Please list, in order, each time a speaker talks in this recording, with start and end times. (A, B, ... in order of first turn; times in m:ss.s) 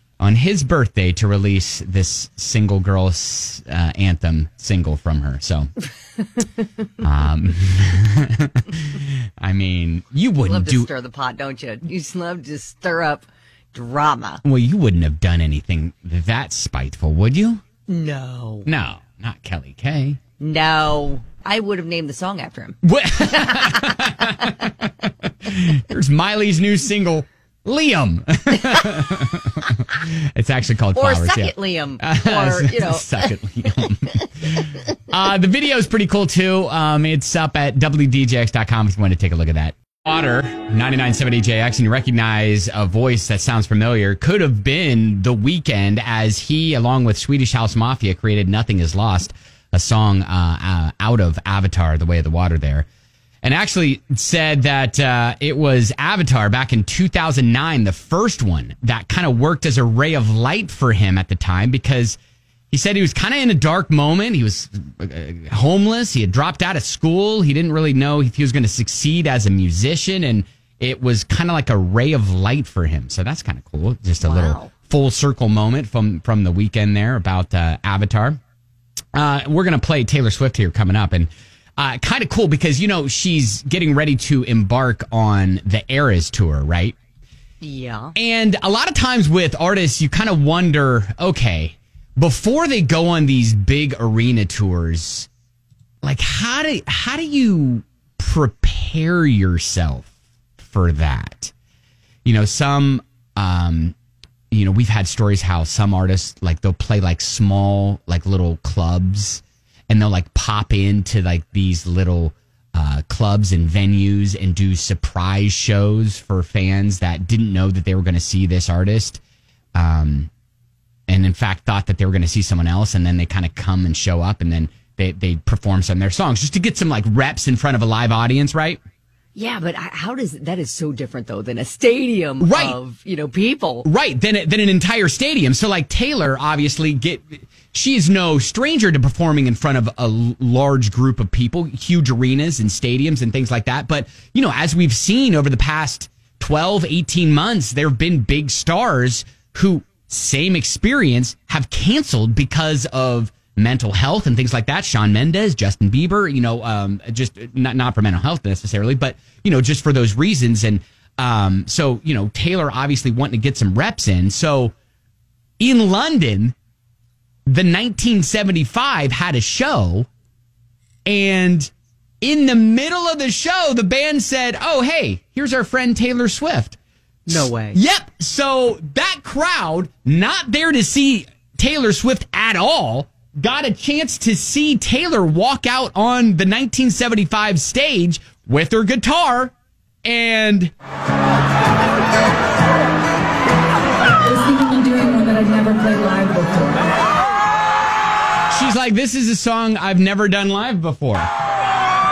0:00.2-0:05.7 A
0:07.0-0:10.9 A
0:10.4-0:14.4 B
0:14.4-0:17.6 A
0:17.9-0:18.7 B
0:18.7-0:20.2 A
0:20.4-0:24.7 B
0:22.8-0:24.9 A
0:25.4-0:52.9 A
0:30.9-0:33.3 B
0:53.4-1:02.2 A
1:02.7-1:18.4 A
1:14.2-1:14.7 B
1:19.1-1:27.0 A
1:27.6-1:28.2 B
1:28.2-1:35.3 A
1:36.0-1:40.1 A
1:40.6-1:41.5 A
1:42.2-1:43.9 A
1:44.5-1:59.2 A
1:59.8-2:00.3 A
2:01.1-2:08.8 A
2:09.4-2:13.9 B
2:12.4-2:12.8 A
2:13.8-2:44.7 A
2:45.6-2:46.6 A
2:47.5-2:50.1 A
2:51.1-2:56.8 A
2:57.3-2:57.8 B
2:57.3-3:09.5 A
3:10.0-3:10.7 A
3:14.2-3:17.0 C
3:18.5-3:21.3 A